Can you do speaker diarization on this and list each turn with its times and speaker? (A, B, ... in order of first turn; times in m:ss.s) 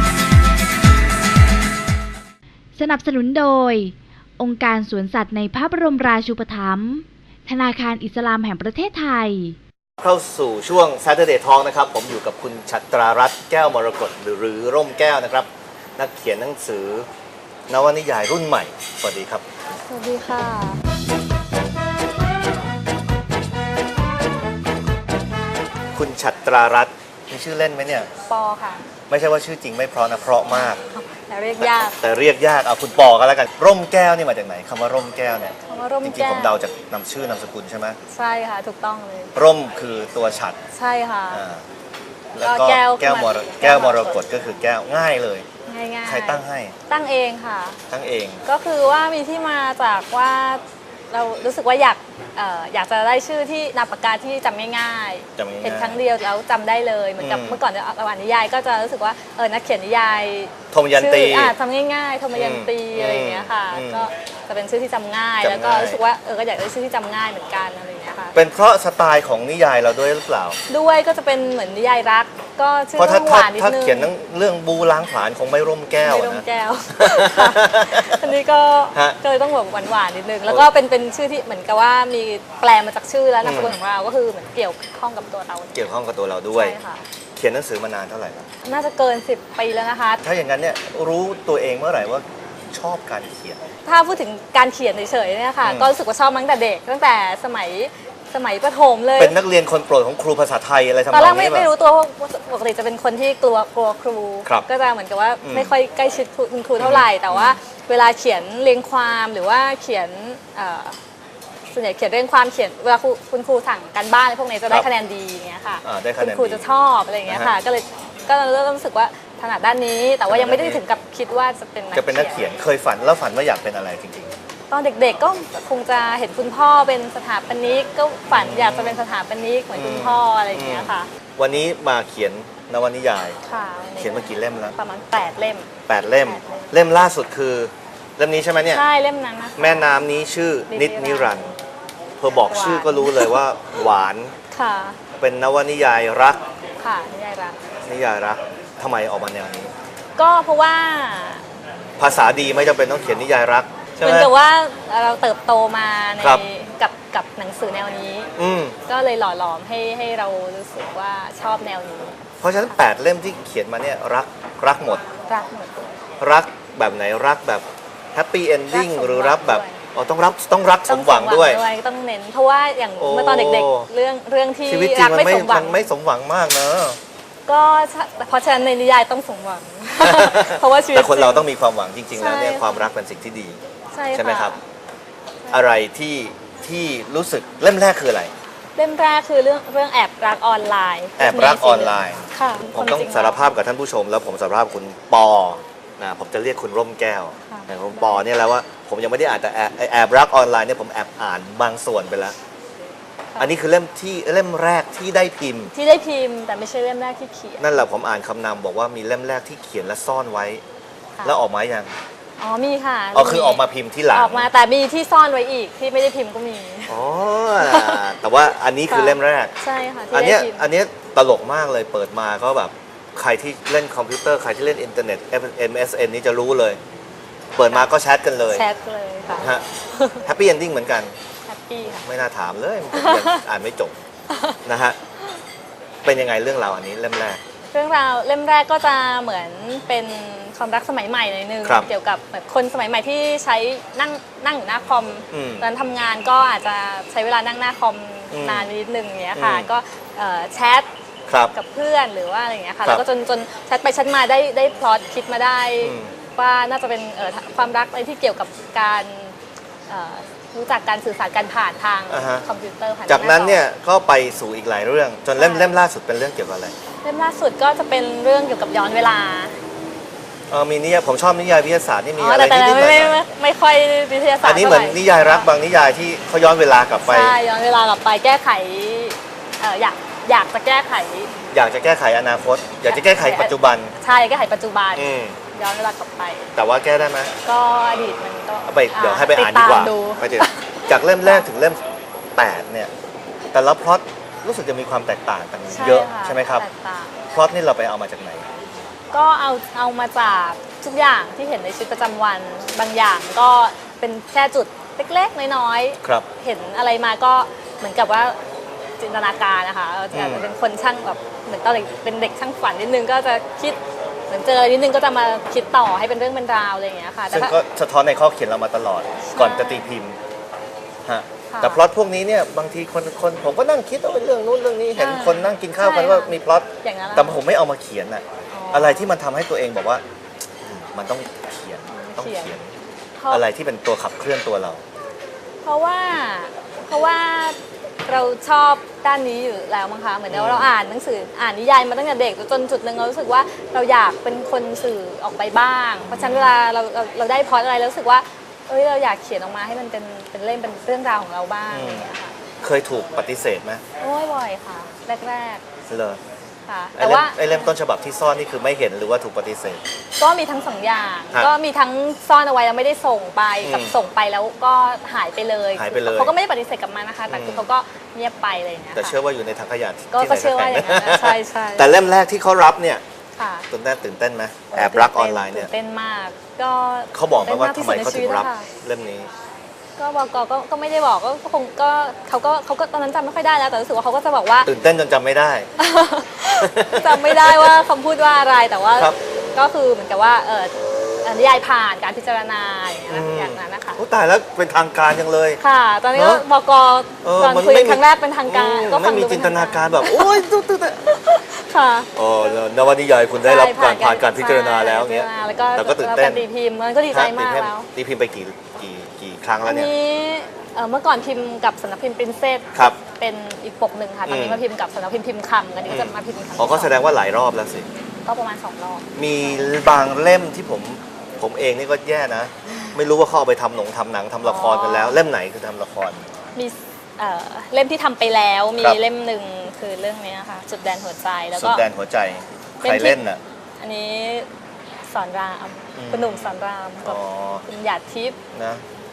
0:02.8-0:09.6 A
0:10.0-0:17.1 B
0:17.7-0:19.4 B
0:19.8-0:20.8 C
0:25.9-0:28.1 B
0:28.3-0:28.8 C
0:29.1-0:30.8 B
0:30.7-0:32.0 C
0:31.6-0:38.0 B
0:35.7-0:36.6 C
0:38.1-0:39.3 C
0:39.4-0:40.6 B
0:40.7-0:41.4 C
0:41.3-0:41.6 B
0:42.3-0:45.5 B
0:42.4-0:44.2 C
0:45.6-0:47.8 C
0:46.0-0:46.8 B
0:47.9-0:48.4 B
0:48.4-1:08.4 C
0:55.4-0:56.0 B
0:57.2-0:57.6 B
1:00.7-1:01.6 B
1:02.3-1:04.1 B
1:05.4-1:06.0 B
1:08.3-1:10.6 B
1:10.7-1:14.1 C
1:13.0-1:18.2 B
1:16.0-1:25.9 C
1:23.4-1:23.8 B
1:25.7-1:26.8 B
1:26.5-1:27.0 C
1:27.4-1:28.5 B
1:28.6-1:30.2 C
1:30.2-1:33.6 B
1:33.8-1:39.4 C
1:35.6-1:35.9 B
1:39.2-1:41.7 B
1:41.1-1:51.0 C
1:45.4-1:45.8 B
1:46.8-1:47.6 B
1:51.7-2:02.4 C
1:55.8-1:56.6 B
1:57.3-1:57.6 B
2:00.3-2:00.8 B
2:01.9-2:04.4 B
2:04.7-2:11.1 C
2:08.3-2:09.0 B
2:09.7-2:13.4 B
2:13.4-2:16.6 C
2:14.0-2:14.8 B
2:15.9-2:18.8 B
2:18.7-2:20.0 C
2:19.6-2:21.5 B
2:20.7-2:21.6 C
2:22.2-2:24.3 B
2:22.4-2:23.4 C
2:24.5-2:25.0 C
2:25.2-2:26.4 B
2:26.8-2:27.6 C
2:27.8-2:29.7 B
2:30.2-2:31.4 C
2:32.0-2:34.3 B
2:34.0-2:38.3 C
2:36.2-2:36.4 B
2:38.4-2:38.8 B
2:38.8-2:42.2 C
2:42.4-2:45.1 B
2:45.2-2:45.9 C
2:46.2-2:51.6 B
2:48.7-2:49.8 C
2:50.9-2:55.9 C
2:53.0-2:53.9 B
2:54.7-2:57.0 B
2:57.5-3:01.5 C
3:00.0-3:03.6 B
3:02.1-3:02.9 C
3:03.9-3:04.6 C
3:04.1-3:04.6 B
3:05.4-3:05.7 C
3:05.5-3:08.3 B
3:08.8-3:13.5 C
3:11.2-3:22.4 B
3:17.5-3:18.2 C
3:23.4-3:25.7 B
3:25.7-3:27.7 C
3:27.6-3:30.6 B
3:31.2-3:31.4 C
3:31.2-3:31.9 B
3:32.4-3:37.0 C
3:33.1-3:34.5 B
3:36.9-3:39.5 B
3:37.6-3:38.0 C
3:38.9-3:40.7 C
3:40.1-3:46.8 B
3:47.6-3:48.6 B
3:48.5-3:50.2 C
3:49.4-3:49.7 B
3:50.2-3:51.1 B
3:51.4-3:52.1 C
3:52.0-3:54.0 B
3:52.9-3:53.4 C
3:54.3-3:54.6 C
3:54.6-3:55.0 B
3:56.0-3:57.4 B
3:57.7-4:10.9 C
4:01.6-4:01.9 B
4:05.3-4:05.7 B
4:08.3-4:08.7 B
4:09.3-4:09.7 B
4:11.3-4:11.5 B
4:11.5-4:19.4 C
4:15.8-4:16.1 B
4:19.9-4:23.6 C
4:22.1-4:22.4 B
4:23.1-4:26.7 B
4:25.4-4:25.8 C
4:27.0-4:29.6 C
4:30.5-4:33.3 B
4:32.2-4:35.5 C
4:34.4-4:37.4 B
4:37.0-4:41.3 C
4:41.5-4:43.9 B
4:42.8-4:46.5 C
4:45.0-4:45.4 B
4:46.6-4:47.4 B
4:47.4-4:51.5 C
4:48.7-4:51.8 B
4:52.4-4:52.9 B
4:53.5-4:56.7 B
4:55.7-4:57.2 C
4:57.3-4:58.5 B
4:59.1-5:08.4 C
5:09.0-5:17.6 C
5:10.1-5:10.5 B
5:17.3-5:20.2 B
5:19.2-5:19.9 C
5:21.1-5:30.0 B
5:21.5-5:21.8 C
5:24.9-5:27.4 C
5:28.5-5:29.1 C
5:30.6-5:32.7 B
5:31.9-5:32.6 C
5:33.2-5:33.4 C
5:33.3-5:34.8 B
5:35.6-5:52.3 C
5:40.3-5:40.7 B
5:46.0-5:46.5 B
5:51.7-5:52.1 B
5:52.6-5:53.8 B
5:54.0-5:55.6 C
5:55.9-5:56.2 B
5:56.7-5:57.7 C
5:57.0-5:59.8 B
6:00.2-6:09.2 C
6:03.6-6:04.0 B
6:05.8-6:06.4 B
6:07.3-6:07.7 B
6:09.0-6:13.0 B
6:10.1-6:11.9 C
6:13.4-6:13.7 C
6:13.7-6:15.7 B
6:14.7-6:18.7 C
6:17.1-6:19.3 B
6:20.0-6:24.7 C
6:24.6-6:25.7 B
6:25.8-6:34.0 C
6:26.6-6:27.8 B
6:33.1-6:35.6 B
6:35.6-6:40.5 C
6:36.1-6:36.4 B
6:37.2-6:41.1 B
6:41.1-6:42.1 C
6:42.2-6:46.5 B
6:43.4-6:47.9 C
6:47.1-6:50.0 B
6:49.6-6:57.0 C
6:54.3-6:54.6 B
6:55.9-6:57.9 B
6:58.2-6:59.6 C
6:59.2-7:06.3 B
7:04.4-7:05.2 C
7:06.6-7:11.8 C
7:11.6-7:13.4 B
7:12.8-7:13.2 C
7:13.8-7:14.5 C
7:15.1-7:18.4 C
7:16.0-7:17.6 B
7:18.5-7:18.8 B